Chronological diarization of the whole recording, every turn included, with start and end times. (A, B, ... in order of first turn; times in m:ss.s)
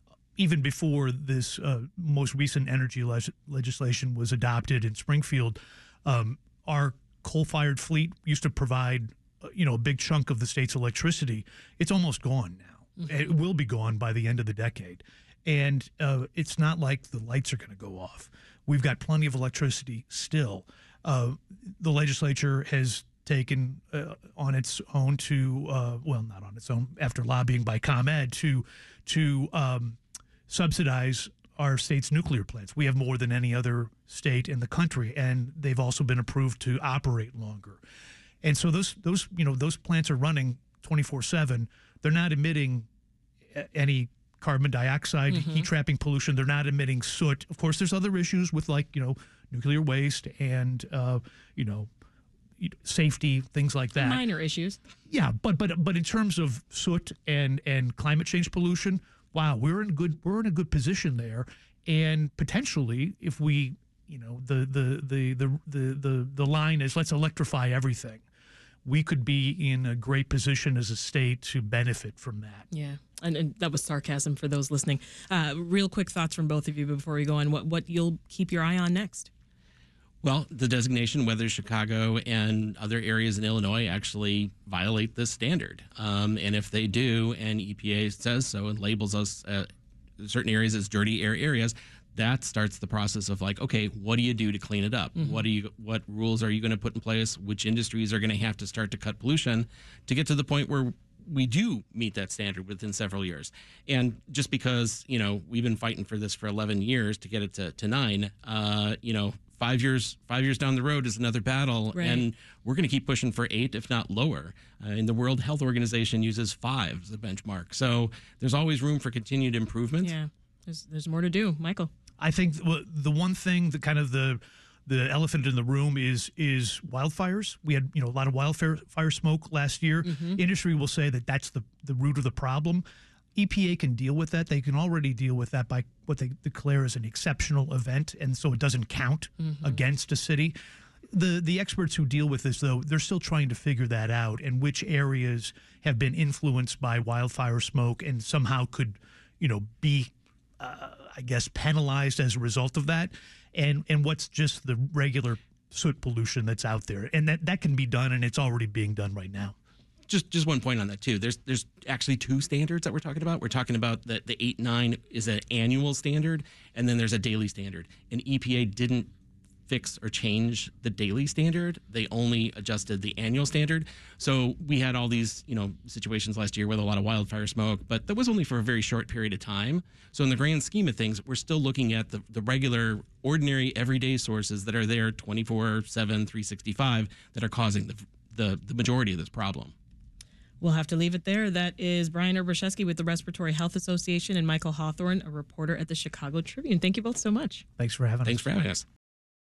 0:00.4-0:37.8 A
0:38.4-0:42.9 A
0:43.5-0:51.9 A
0:45.3-0:45.7 B
0:52.6-0:54.2 A
0:54.0-0:54.8 B
0:55.1-1:08.2 A
1:08.8-1:12.6 A
1:12.7-1:19.3 B
1:20.2-1:29.7 C
1:30.2-2:00.1 C
1:35.2-1:35.4 B
1:51.9-1:52.2 B
2:00.0-2:01.9 B
2:02.2-2:20.6 A
2:10.0-2:10.4 B
2:19.4-2:19.8 B
2:21.1-2:39.6 A
2:40.1-2:49.1 C
2:49.7-3:09.7 C
3:10.6-3:17.6 B
3:17.8-3:18.5 A
3:18.2-3:18.8 C